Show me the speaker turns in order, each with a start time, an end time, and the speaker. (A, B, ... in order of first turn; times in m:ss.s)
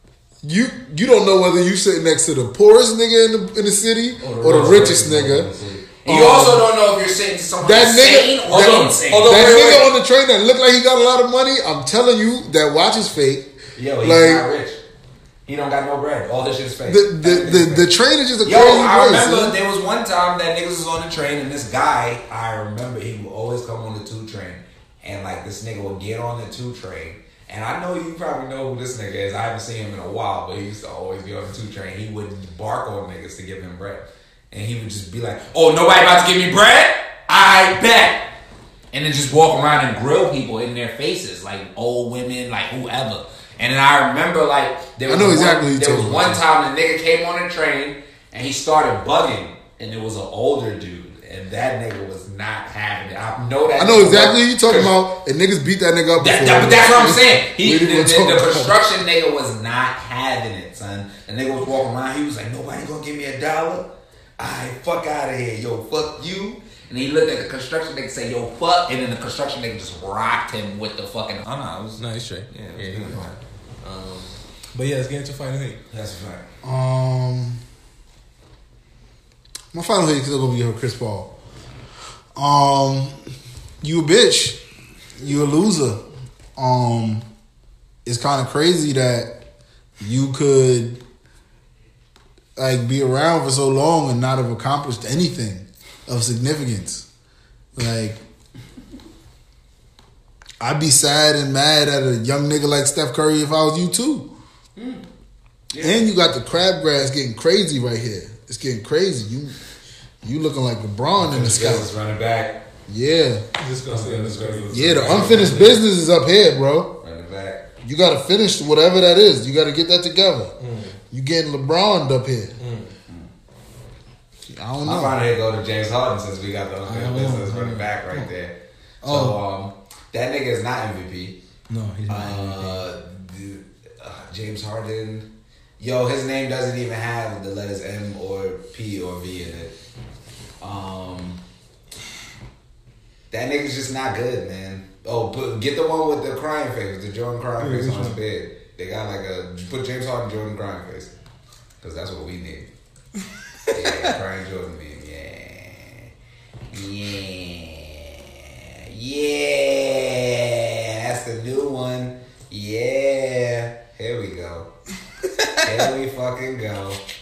0:00.4-0:05.5 A
0:04.2-0:05.8 B
0:06.0-0:09.9 C
0:06.0-0:06.6 A
0:07.6-0:13.5 A
0:09.0-0:09.8 B
0:13.8-0:14.8 C
0:14.0-0:14.5 A
0:15.4-0:17.9 C
0:16.8-0:19.5 A
0:18.4-0:38.3 C
0:38.9-0:54.9 C
0:45.1-0:46.4 A
0:53.8-0:58.7 A
0:56.2-1:13.4 C
1:12.0-1:15.8 B
1:15.9-1:16.4 C
1:16.6-1:17.6 A
1:19.7-1:21.3 A
1:22.3-1:23.2 A
1:23.8-1:24.6 A
1:25.2-1:26.0 A
1:26.6-1:27.3 A
1:28.0-1:29.3 A
1:30.0-1:31.0 A
1:32.6-1:37.0 A
1:37.8-1:38.2 A
1:40.6-1:44.3 A
1:44.8-1:45.0 C
1:45.7-1:46.1 C
1:45.8-1:49.6 A
1:50.2-1:51.9 A
1:51.2-1:52.6 C
1:52.9-1:53.4 A
1:53.6-1:55.8 B
1:53.9-1:55.5 C
1:54.7-1:56.9 A
1:57.0-1:57.6 C
1:57.8-2:00.5 A
2:00.6-2:01.0 B
2:01.1-2:02.5 A
2:02.6-2:02.9 B
2:04.4-2:05.2 A
2:04.8-2:08.5 C
2:06.8-2:08.3 B
2:09.0-2:09.4 B
2:09.0-2:11.4 C
2:11.7-2:12.8 B
2:12.1-2:15.3 C
2:15.8-2:19.7 C
2:20.6-2:21.4 C
2:23.3-2:31.1 C
2:27.6-2:28.2 B
2:31.8-2:32.7 C
2:33.7-2:36.1 C
2:36.7-2:44.7 C
2:45.6-2:47.0 C